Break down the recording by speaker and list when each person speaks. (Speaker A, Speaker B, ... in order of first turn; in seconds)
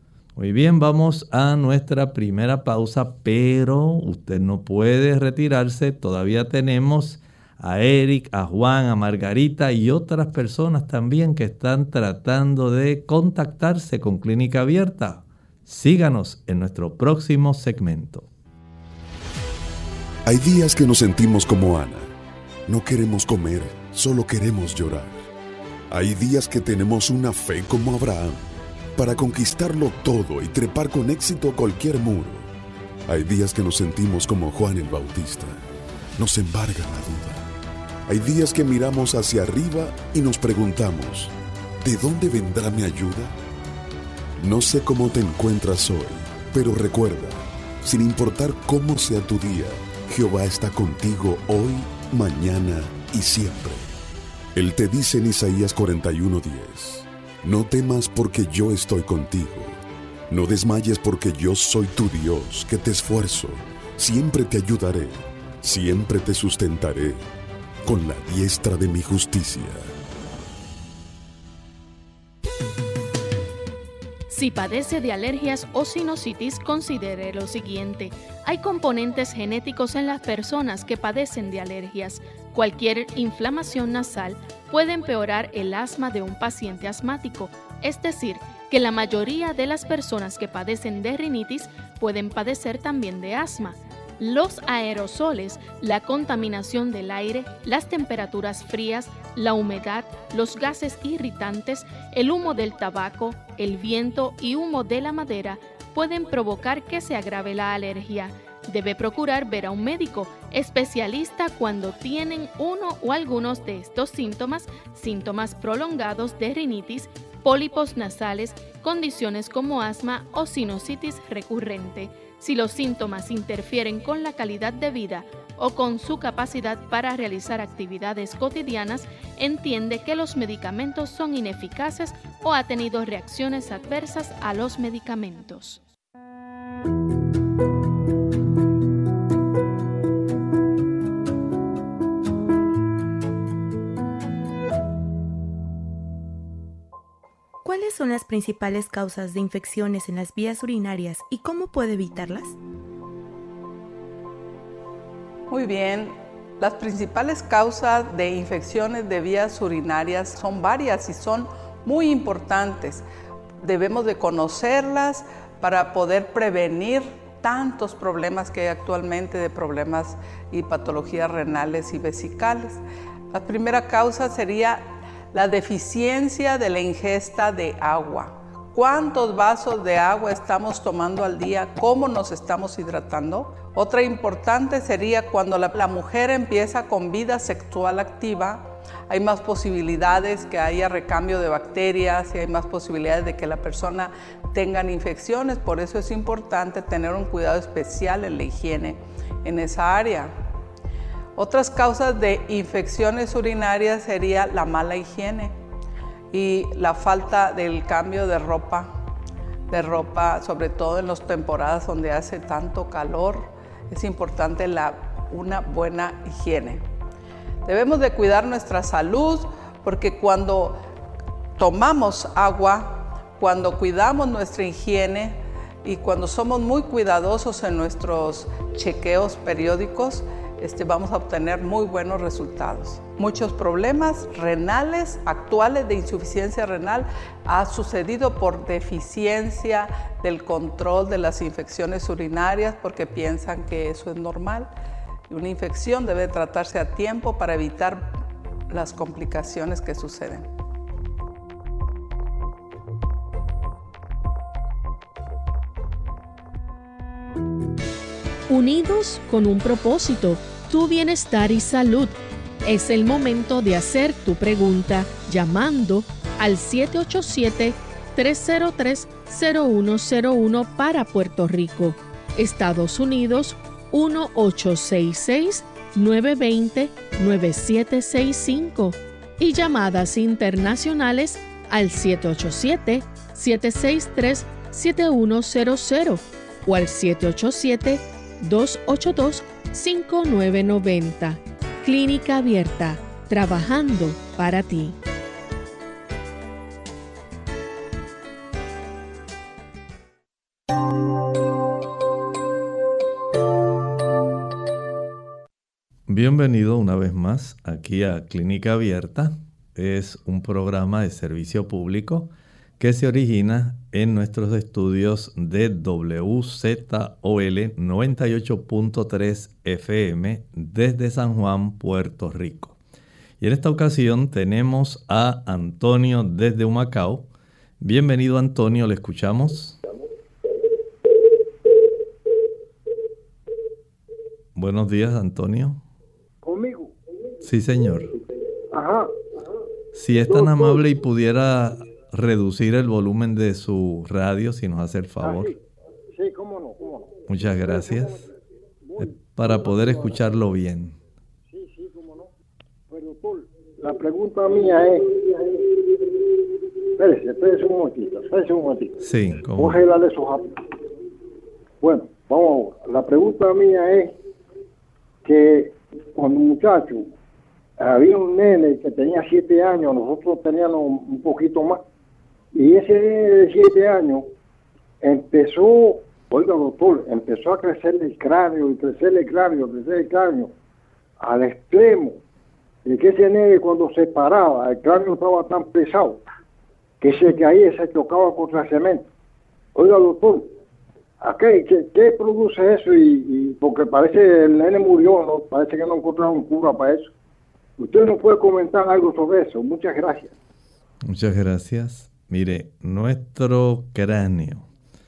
Speaker A: 0.4-18.3, 306.1-322.8, 323.4-327.3, 327.8-329.8, 334.6-335.8, 337.4-338.1, 339.9-345.5, 347.3-348.3, 349.4-351.0, 359.0-359.8, 401.1-404.7
Speaker B: 20.3-22.1, 22.7-25.3, 25.9-28.4, 29.0-32.5, 33.1-35.6, 36.2-37.4, 38.1-43.3, 44.4-53.9, 54.5-59.8, 60.3-67.2, 67.8-69.8
Speaker C: 74.3-135.8, 258.5-262.1, 262.6-295.0
Speaker D: 147.6-152.6
Speaker E: 155.5-163.0, 163.6-172.8, 173.3-200.3, 201.4-205.5, 206.3-208.9, 209.7-216.8, 217.7-220.8, 221.6-244.7, 245.3-248.2, 248.7-250.5
Speaker F: 336.4-336.9, 338.7-339.1, 340.3-340.9, 345.2-345.6, 346.1-347.1, 347.7-348.3, 348.9-350.1, 351.5-352.3, 352.9-356.1, 357.0-359.0, 359.6-360.5, 361.8-364.2, 365.2-367.1, 367.8-371.8, 372.6-374.3, 375.0-380.5, 381.2-382.2, 382.9-386.3, 387.0-389.1, 389.8-390.5, 391.2-397.1, 397.8-400.3